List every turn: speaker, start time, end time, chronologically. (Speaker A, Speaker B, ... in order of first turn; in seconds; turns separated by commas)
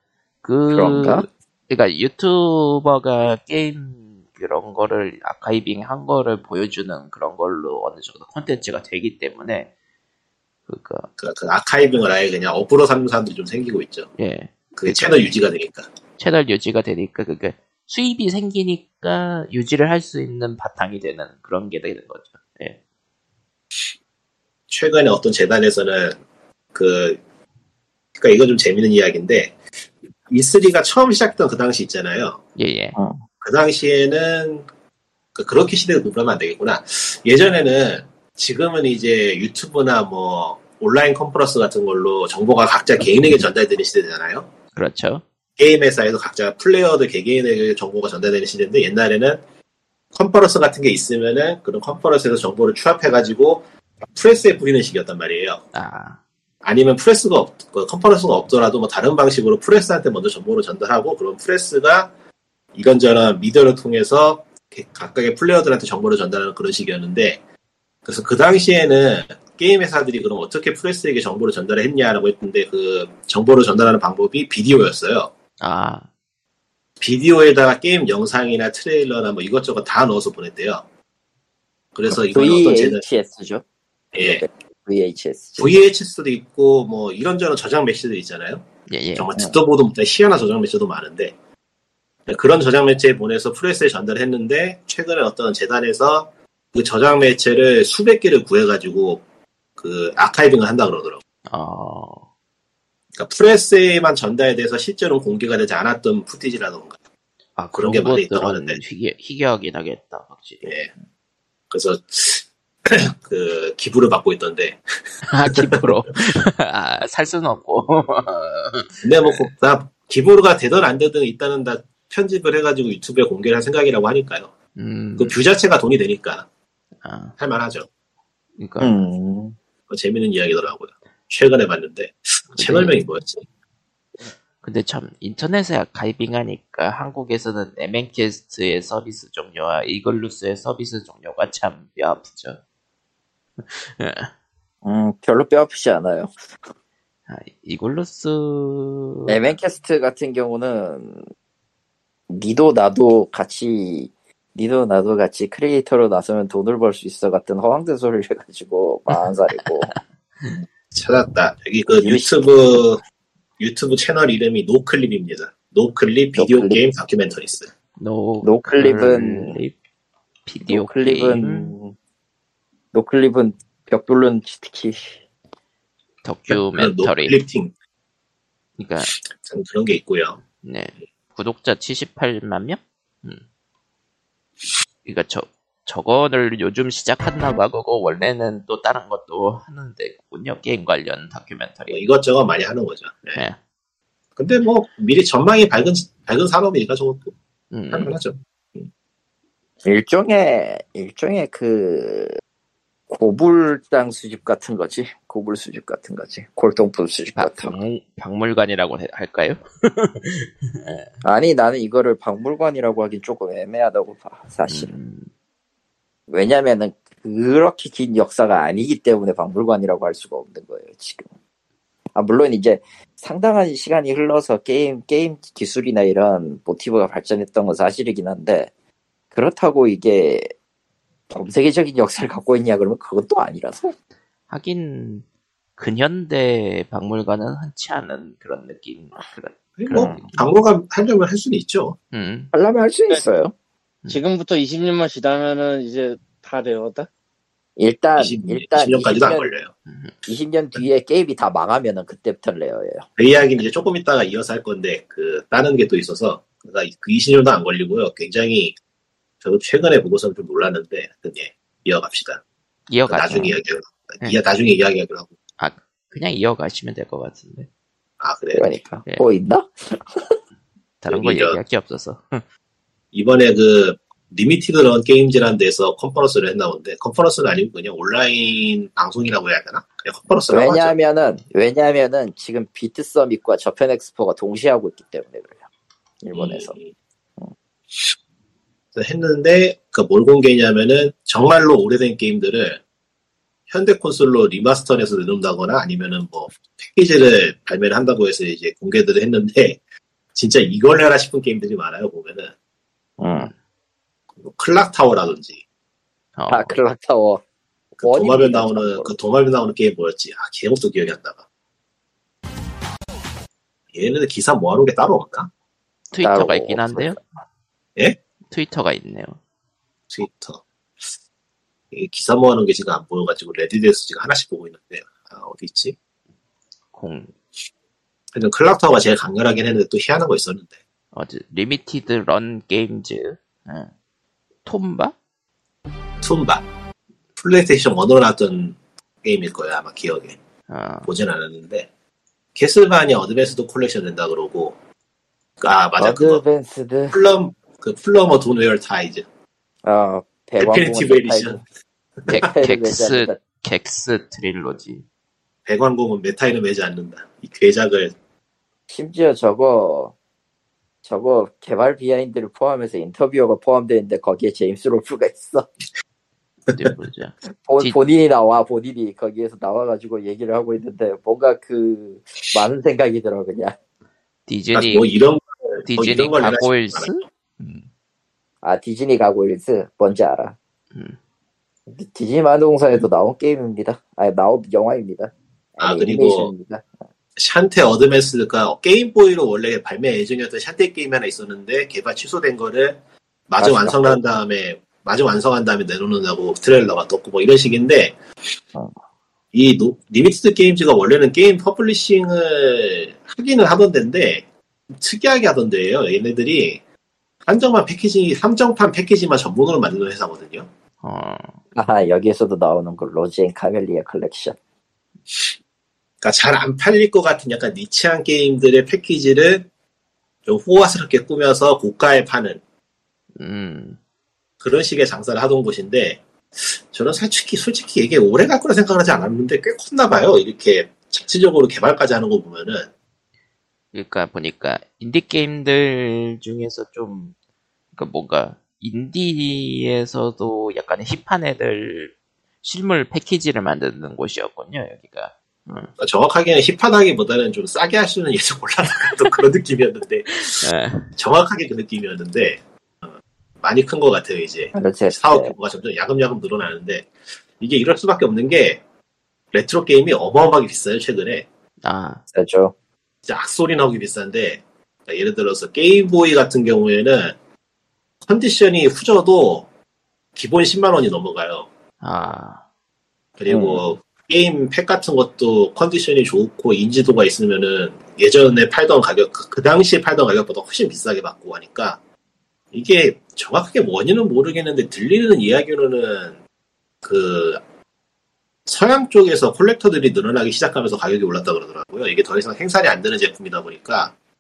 Speaker A: 0.4-9.7, Speaker B: 0.7-1.3, Speaker A: 10.7-11.1, Speaker C: 11.2-14.1, Speaker A: 14.2-15.3, Speaker C: 14.8-15.9, Speaker A: 16.2-22.8, Speaker C: 24.7-26.2, Speaker C: 26.7-27.2, Speaker C: 28.2-29.6, Speaker C: 30.3-32.4, Speaker A: 32.6-33.0, Speaker B: 33.0-33.2, Speaker C: 33.4-34.7, Speaker C: 35.4-44.5, Speaker A: 44.8-45.2, Speaker C: 45.6-49.4, Speaker C: 50.1-55.6, Speaker A: 55.7-56.2, Speaker C: 56.6-62.1, Speaker C: 62.8-67.4, Speaker C: 68.0-75.3, Speaker A: 75.6-76.1, Speaker C: 77.0-80.8, Speaker C: 81.9-83.0, Speaker B: 82.1-83.6, Speaker C: 84.1-84.5, Speaker B: 84.2-85.7, Speaker C: 85.6-88.7, Speaker A: 88.9-89.3, Speaker C: 89.2-91.3, Speaker C: 92.3-99.2, Speaker C: 99.8-101.2, Speaker A: 101.5-102.2, Speaker C: 103.2-107.0, Speaker A: 107.6-110.7, Speaker C: 107.7-108.8, Speaker C: 110.7-110.9, Speaker C: 111.7-114.8, Speaker A: 115.3-119.5, Speaker C: 115.5-115.9, Speaker C: 119.0-124.5, Speaker A: 124.8-125.4, Speaker C: 125.2-126.5, Speaker A: 127.0-127.3, Speaker C: 127.4-127.9, Speaker A: 128.6-128.9, Speaker B: 128.8-129.6, Speaker C: 129.9-133.4, Speaker A: 132.6-133.0, Speaker A: 134.6-142.6, Speaker A: 143.6-144.3, Speaker B: 144.8-146.4, Speaker A: 147.3-149.4, Speaker B: 149.3-151.2, Speaker B: 152.3-159.9, Speaker A: 159.8-160.5, Speaker C: 160.9-163.0, Speaker B: 161.9-162.8, Speaker C: 163.6-167.7, Speaker B: 166.3-166.8, Speaker A: 168.0-169.8, Speaker B: 168.4-169.6, Speaker A: 170.4-171.8, Speaker B: 170.7-171.9, Speaker B: 172.9-175.2, Speaker A: 176.2-177.4, Speaker C: 176.5-177.7, Speaker A: 178.8-179.1, Speaker C: 179.1-180.4, Speaker A: 180.6-183.4, Speaker A: 185.1-192.0, Speaker C: 191.9-193.4, Speaker C: 194.4-197.3, Speaker A: 197.7-198.2, Speaker C: 197.9-198.9, Speaker B: 199.8-202.4, Speaker B: 203.1-207.8, Speaker A: 207.4-211.1, Speaker B: 211.2-214.9, Speaker A: 214.7-215.3, Speaker B: 216.3-221.3, Speaker B: 222.1-228.7, Speaker B: 229.3-230.5, Speaker B: 231.3-233.9, Speaker A: 234.5-235.2, Speaker A: 235.8-240.4, Speaker C: 239.8-242.0, Speaker B: 239.9-240.2, Speaker A: 242.1-242.5, Speaker B: 242.5-243.5, Speaker D: 244.1-247.1, Speaker B: 247.8-249.5, Speaker C: 248.2-249.7, Speaker A: 249.9-250.2, Speaker B: 250.2-253.1, Speaker C: 253.2-258.8, Speaker C: 259.4-262.4, Speaker A: 262.9-263.6, Speaker C: 263.1-265.3, Speaker A: 265.6-267.7, Speaker C: 268.2-268.7, Speaker B: 268.5-270.4, Speaker A: 271.0-272.4, Speaker C: 271.1-271.6, Speaker C: 273.1-280.9, Speaker B: 280.5-285.6, Speaker B: 286.2-286.8, Speaker C: 286.3-286.9, Speaker C: 288.9-292.8, Speaker C: 293.7-299.8, Speaker C: 300.4-302.5, Speaker B: 303.2-303.5, Speaker C: 304.4-305.6, Speaker A: 306.4-306.8, Speaker B: 306.5-307.4, Speaker B: 308.0-309.1, Speaker C: 308.0-311.4, Speaker C: 313.9-315.5, Speaker A: 316.1-317.2, Speaker B: 316.2-317.2, Speaker A: 318.5-319.4, Speaker C: 320.1-321.1, Speaker C: 321.9-325.9, Speaker A: 326.9-327.3, Speaker C: 328.3-330.7, Speaker A: 331.1-333.9, Speaker A: 334.6-335.1, Speaker C: 336.2-336.7, Speaker C: 337.4-340.4, Speaker A: 340.7-341.1, Speaker C: 341.1-341.9, Speaker C: 342.6-344.8, Speaker C: 345.6-346.4, Speaker B: 346.0-347.2, Speaker C: 347.1-349.2, Speaker B: 349.9-351.6, Speaker C: 350.6-351.6, Speaker A: 352.3-355.0, Speaker B: 352.3-353.4, Speaker C: 355.7-358.1, Speaker B: 358.9-360.1, Speaker B: 361.0-365.7, Speaker A: 366.7-368.0, Speaker B: 367.5-373.8, Speaker A: 374.5-375.1, Speaker C: 374.8-377.1, Speaker A: 375.9-377.9, Speaker B: 378.6-380.6, Speaker A: 380.9-381.2, Speaker B: 381.9-386.9, Speaker C: 385.8-386.5, Speaker C: 387.4-393.0, Speaker C: 393.5-398.1, Speaker B: 393.6-394.2, Speaker C: 399.5-404.5, Speaker C: 405.0-406.8, Speaker C: 407.4-410.7, Speaker A: 411.0-411.6, Speaker B: 411.8-414.6, Speaker C: 416.2-419.7, Speaker C: 420.4-422.6, Speaker A: 423.4-424.0, Speaker C: 424.6-432.9, Speaker A: 433.9-437.3, Speaker A: 437.9-445.9, Speaker C: 446.0-450.6, Speaker A: 450.5-451.1, Speaker C: 451.2-453.1, Speaker C: 453.6-458.8, Speaker B: 454.7-455.5, Speaker C: 459.5-461.5, Speaker A: 461.8-462.2, Speaker B: 462.3-462.7, Speaker C: 463.3-467.4, Speaker C: 468.2-469.7, Speaker C: 470.4-471.7, Speaker A: 472.0-472.6, Speaker C: 473.4-482.0, Speaker B: 473.5-473.8, Speaker C: 482.7-486.4, Speaker C: 487.0-487.6, Speaker C: 488.7-494.1